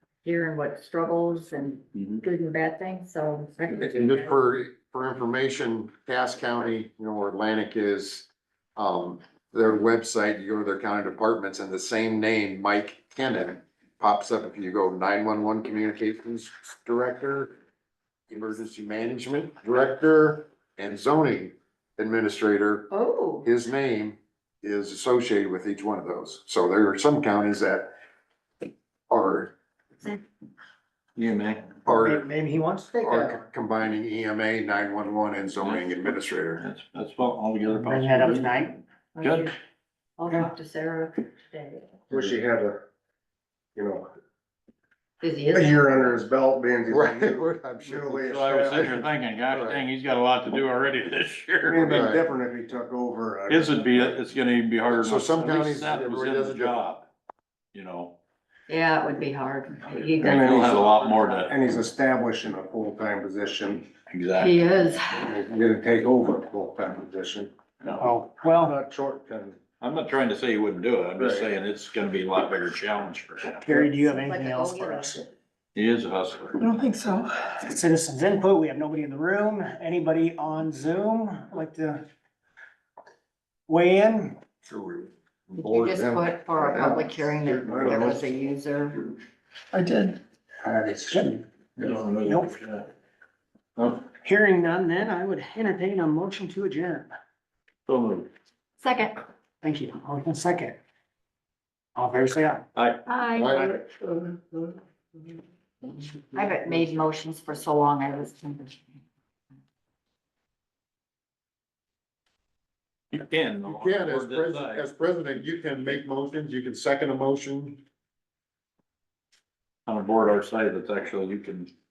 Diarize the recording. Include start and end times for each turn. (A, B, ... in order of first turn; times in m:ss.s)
0:00.2-0:04.3 A
0:02.0-0:02.2 B
0:03.7-0:17.5 C
0:18.3-0:22.9 C
0:22.9-0:23.5 A
0:23.4-0:27.9 C
0:29.1-0:29.5 C
0:31.2-0:31.7 B
0:31.8-0:32.2 C
0:32.0-0:33.4 D
0:33.0-0:36.7 C
0:35.6-0:36.0 B
0:36.6-0:39.5 B
0:37.7-0:38.8 D
0:39.2-0:39.6 A
0:40.2-0:42.0 A
0:42.1-0:42.8 E
0:43.8-0:44.1 E
0:45.2-0:46.3 A
0:45.5-0:49.0 E
0:46.9-0:48.3 C
0:48.2-0:52.1 B
0:49.5-0:49.8 C
0:51.7-0:54.2 E
0:51.9-0:52.2 C
0:53.5-0:57.1 B
0:54.9-0:56.8 C
0:57.7-0:58.2 B
0:58.7-1:01.6 A
0:59.9-1:01.5 B
1:00.2-1:03.9 E
1:04.1-1:04.6 B
1:04.4-1:05.3 A
1:05.2-1:07.5 E
1:08.0-1:08.8 D
1:08.5-1:09.6 E
1:09.8-1:13.7 B
1:11.2-1:11.5 E
1:13.6-1:15.2 D
1:14.1-1:15.2 A
1:15.8-1:16.8 B
1:16.6-1:22.0 D
1:23.7-1:24.4 D
1:24.7-1:28.2 C
1:25.6-1:29.0 A
1:30.6-1:31.2 E
1:31.1-1:31.4 D
1:31.8-1:32.8 B
1:32.2-1:32.5 D
1:34.2-1:37.1 D
1:37.9-1:38.3 B
1:38.8-1:39.2 A
1:39.6-1:40.8 D
1:42.0-1:42.6 D
1:42.8-1:43.0 B
1:43.1-1:43.8 A
1:43.4-1:43.8 C
1:46.3-1:49.0 A
1:53.1-1:54.8 B
1:53.7-1:57.8 C
1:59.9-2:01.7 B